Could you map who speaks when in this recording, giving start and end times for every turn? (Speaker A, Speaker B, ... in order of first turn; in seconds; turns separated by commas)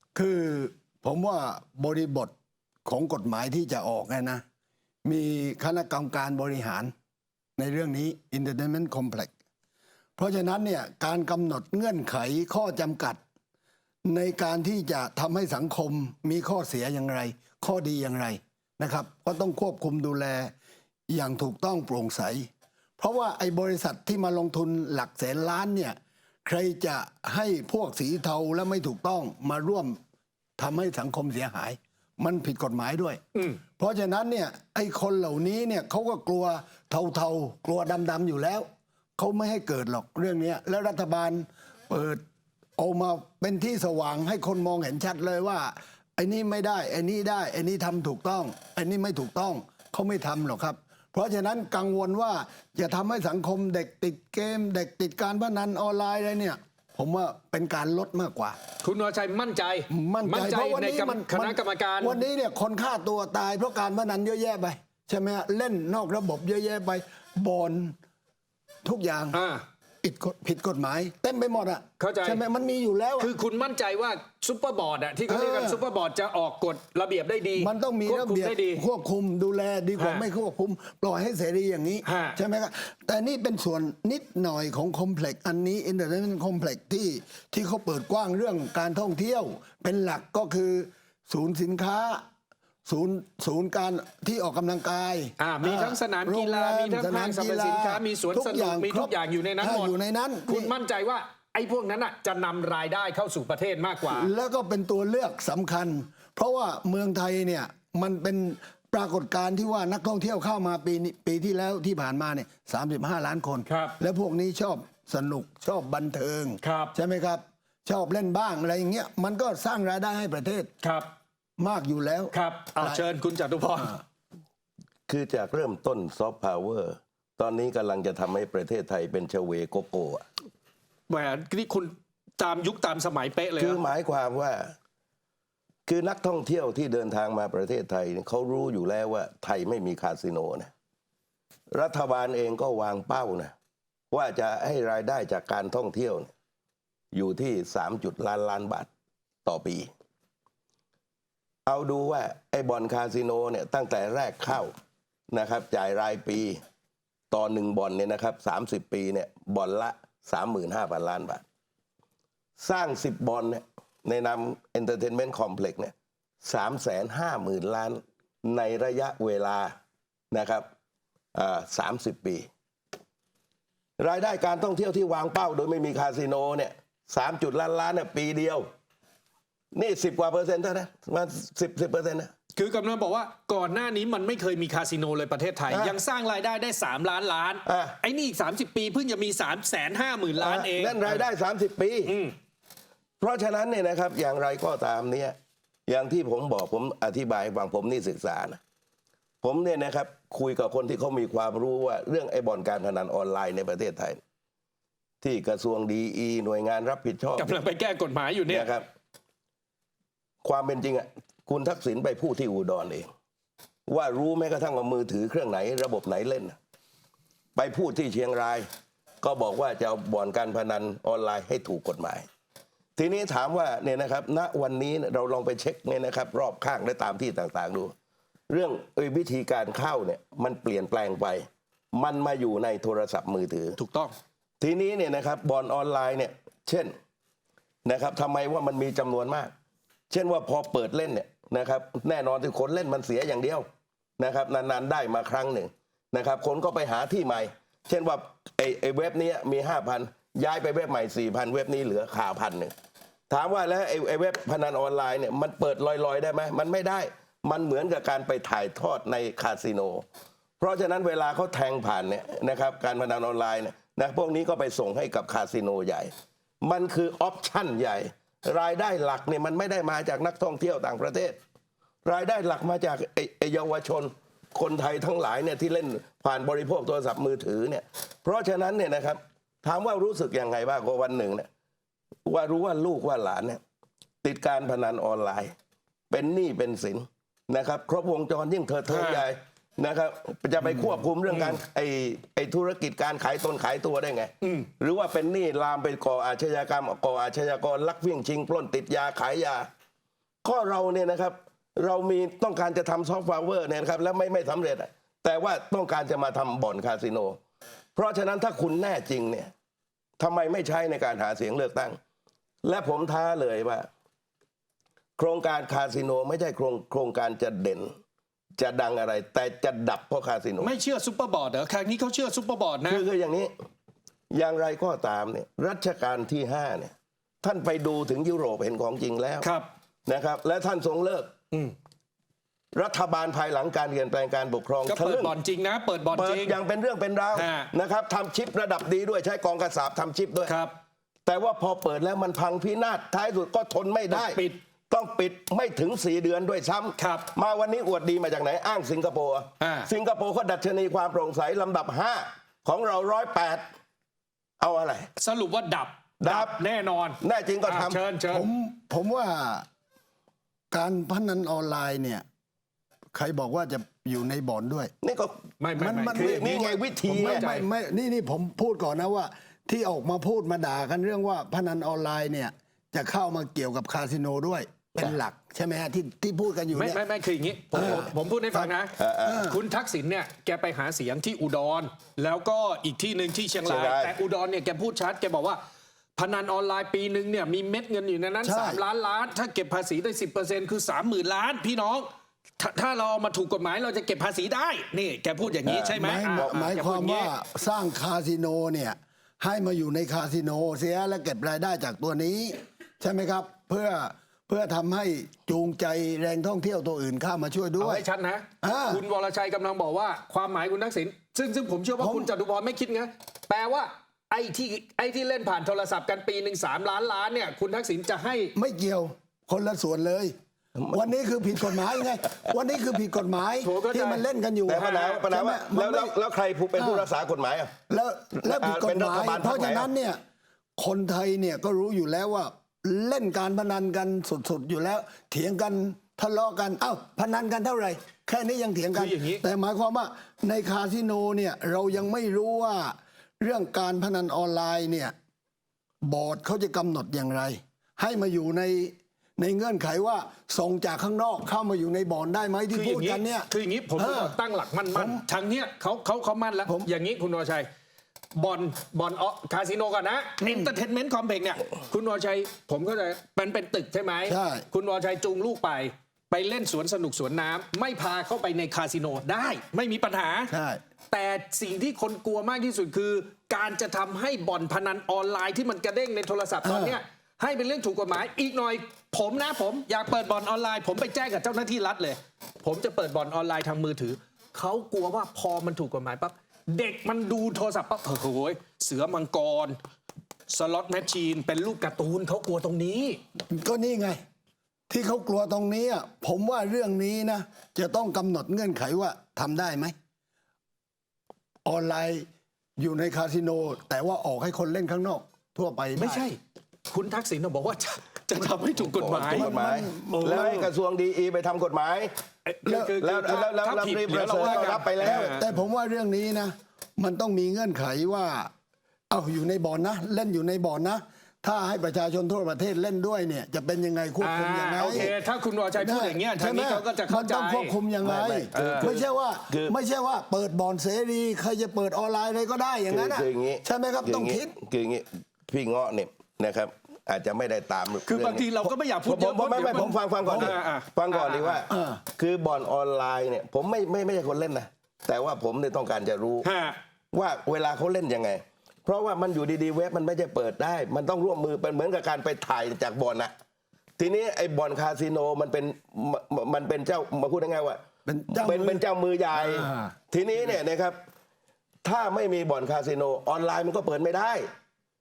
Speaker A: 0.1-2.3, Speaker A: 2.9-4.4, Speaker A: 5.0-6.9, Speaker A: 7.6-9.3, Speaker A: 10.2-13.2, Speaker A: 14.1-20.5, Speaker A: 21.1-22.5, Speaker A: 23.0-30.0, Speaker A: 30.6-33.2, Speaker B: 33.4-33.6, Speaker A: 33.8-42.2, Speaker A: 42.8-58.6, Speaker B: 58.8-62.2, Speaker A: 59.9-68.0, Speaker A: 68.8-69.4, Speaker B: 69.3-69.6, Speaker A: 70.0-73.3, Speaker B: 72.0-72.4, Speaker B: 73.2-78.8, Speaker A: 75.3-75.8, Speaker A: 77.6-92.2, Speaker B: 80.0-80.3, Speaker B: 82.0-82.4, Speaker A: 92.9-100.7, Speaker B: 95.4-99.9, Speaker B: 100.5-104.3, Speaker A: 104.1-120.7, Speaker B: 113.7-114.0, Speaker B: 116.6-117.0, Speaker B: 120.8-121.1, Speaker A: 121.6-123.0, Speaker B: 122.3-124.0, Speaker C: 125.1-130.2, Speaker B: 131.1-133.8, Speaker C: 133.6-134.7, Speaker C: 135.9-140.7, Speaker C: 141.7-143.5, Speaker C: 144.1-146.3, Speaker C: 147.1-148.9, Speaker C: 149.5-149.9, Speaker C: 151.7-154.7, Speaker C: 155.3-156.6, Speaker C: 157.3-161.4, Speaker C: 162.6-169.7, Speaker C: 170.3-170.7, Speaker C: 171.3-172.5, Speaker C: 174.0-178.7, Speaker C: 179.7-182.3, Speaker B: 182.6-191.3, Speaker C: 185.7-186.0, Speaker C: 187.7-188.0, Speaker C: 190.4-192.1, Speaker B: 192.1-192.3, Speaker C: 193.2-195.4, Speaker C: 195.9-198.6, Speaker C: 199.4-204.2, Speaker C: 205.2-207.6, Speaker B: 207.4-208.8, Speaker C: 208.5-208.9, Speaker C: 210.4-213.1, Speaker C: 213.9-216.6, Speaker C: 217.6-218.7, Speaker C: 219.2-222.3, Speaker C: 223.0-227.9, Speaker C: 228.5-233.8, Speaker B: 233.8-234.2, Speaker C: 234.6-236.9, Speaker C: 237.8-239.5, Speaker C: 240.1-243.7, Speaker C: 244.2-252.7, Speaker C: 253.3-260.1, Speaker C: 260.6-271.4, Speaker C: 272.1-281.5, Speaker C: 282.3-283.6, Speaker C: 284.2-285.5, Speaker C: 286.1-299.7, Speaker B: 288.9-289.3, Speaker B: 290.6-291.6, Speaker B: 294.4-294.7, Speaker C: 300.4-307.4, Speaker C: 308.0-309.5, Speaker C: 310.2-312.0, Speaker C: 312.6-313.9, Speaker C: 315.2-317.9, Speaker C: 318.6-320.7, Speaker B: 320.6-323.0, Speaker C: 322.9-323.5, Speaker C: 324.3-329.5, Speaker B: 329.4-329.7, Speaker C: 330.1-331.3, Speaker C: 332.8-335.3, Speaker B: 334.9-336.6, Speaker C: 336.1-340.6, Speaker B: 337.3-337.7, Speaker B: 340.5-340.8, Speaker C: 341.3-353.6, Speaker B: 344.1-344.6, Speaker B: 347.0-347.3, Speaker B: 349.6-349.9, Speaker C: 354.6-355.1, Speaker B: 355.2-358.5, Speaker C: 356.2-356.6, Speaker C: 357.2-358.0, Speaker A: 358.3-359.6, Speaker A: 360.7-362.2, Speaker A: 363.1-364.9, Speaker C: 365.0-365.4, Speaker B: 365.6-366.5, Speaker A: 365.8-377.0, Speaker C: 366.1-367.6, Speaker B: 367.2-367.6, Speaker B: 376.7-385.6, Speaker A: 377.7-378.7, Speaker C: 379.0-379.5, Speaker A: 379.3-379.6, Speaker C: 383.6-384.2, Speaker B: 386.2-392.1, Speaker A: 388.4-388.8, Speaker B: 392.6-397.3, Speaker C: 395.6-396.7, Speaker A: 396.0-408.1, Speaker B: 407.8-418.5, Speaker A: 408.6-409.0, Speaker A: 412.0-412.3, Speaker A: 418.6-420.3, Speaker A: 420.9-426.1, Speaker C: 421.8-422.0, Speaker B: 423.6-424.2, Speaker C: 424.7-427.7, Speaker B: 424.9-425.2, Speaker A: 426.8-427.1, Speaker A: 427.9-430.2, Speaker C: 428.4-429.9, Speaker A: 430.8-445.1, Speaker B: 438.9-439.4, Speaker A: 446.0-454.4, Speaker B: 452.7-457.7, Speaker A: 454.9-455.2, Speaker B: 458.4-470.5, Speaker A: 460.4-460.7, Speaker A: 464.3-464.6, Speaker A: 470.5-470.8, Speaker B: 471.1-489.8, Speaker A: 476.6-477.0, Speaker B: 490.5-493.2, Speaker A: 493.5-494.2, Speaker A: 494.9-499.9, Speaker A: 501.6-502.3, Speaker A: 502.8-506.3, Speaker B: 506.0-506.4, Speaker B: 506.9-509.5, Speaker C: 508.8-512.1, Speaker A: 509.3-510.7, Speaker B: 510.1-510.7, Speaker B: 512.5-515.4, Speaker A: 512.7-513.0, Speaker C: 513.0-515.4, Speaker A: 514.4-518.5, Speaker A: 519.1-525.1, Speaker B: 524.2-527.8, Speaker C: 524.8-525.1, Speaker A: 525.8-534.5, Speaker C: 528.0-529.8, Speaker B: 528.5-529.0, Speaker C: 532.9-546.5, Speaker B: 538.1-541.6, Speaker A: 540.2-540.6, Speaker A: 541.7-542.0, Speaker B: 546.4-546.8, Speaker C: 547.1-553.3, Speaker C: 554.0-561.0, Speaker A: 558.1-558.8, Speaker A: 559.3-559.9, Speaker C: 561.8-564.5